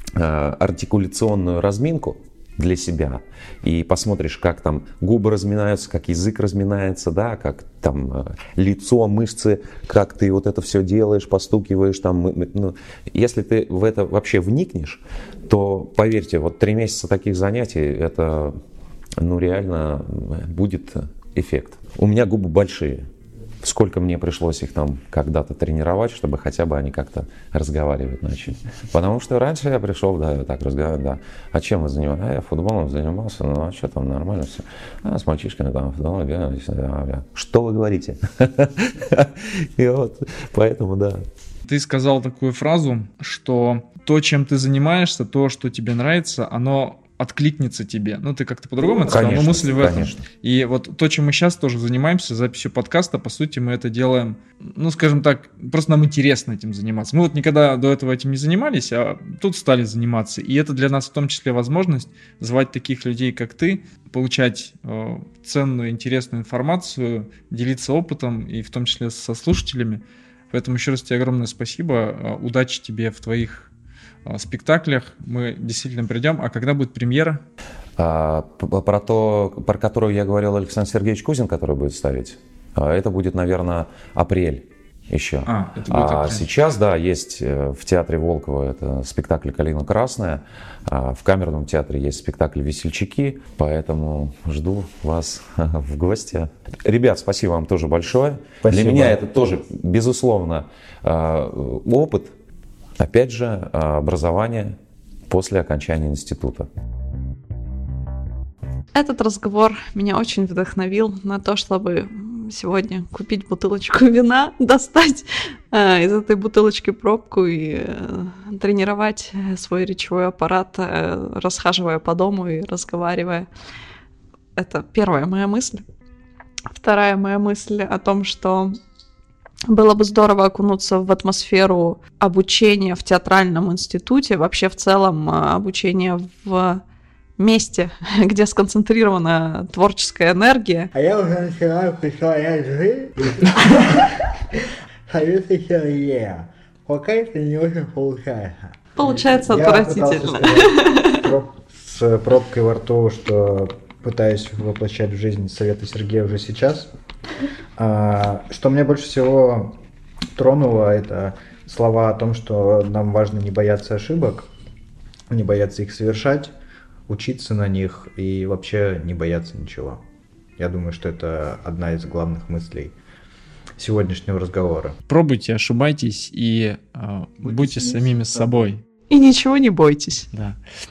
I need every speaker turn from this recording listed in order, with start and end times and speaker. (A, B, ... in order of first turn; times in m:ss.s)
0:00.1-0:18.6 A
0:19.2-0:23.0 A
0:23.6-0:41.2 A
0:41.7-1:13.7 B
0:49.0-0:50.2 A
1:14.2-1:17.4 B
1:18.0-1:42.3 A
1:25.4-1:26.5 B
1:38.6-1:39.2 C
1:43.0-1:44.7 A
1:45.3-1:46.7 A
1:48.9-2:03.5 D
2:04.6-2:05.8 D
2:06.7-2:08.8 D
2:09.7-2:16.8 D
2:17.4-2:20.9 D
2:20.9-2:36.9 C
2:29.0-2:31.2 D
2:37.8-2:39.8 C
2:40.4-2:44.5 C
2:45.3-2:46.5 C
2:47.1-2:50.0 C
2:50.6-2:52.9 C
2:53.8-2:54.9 C
2:55.1-2:58.8 B
2:57.4-2:58.1 C
2:59.1-3:00.3 D
3:00.3-3:00.6 B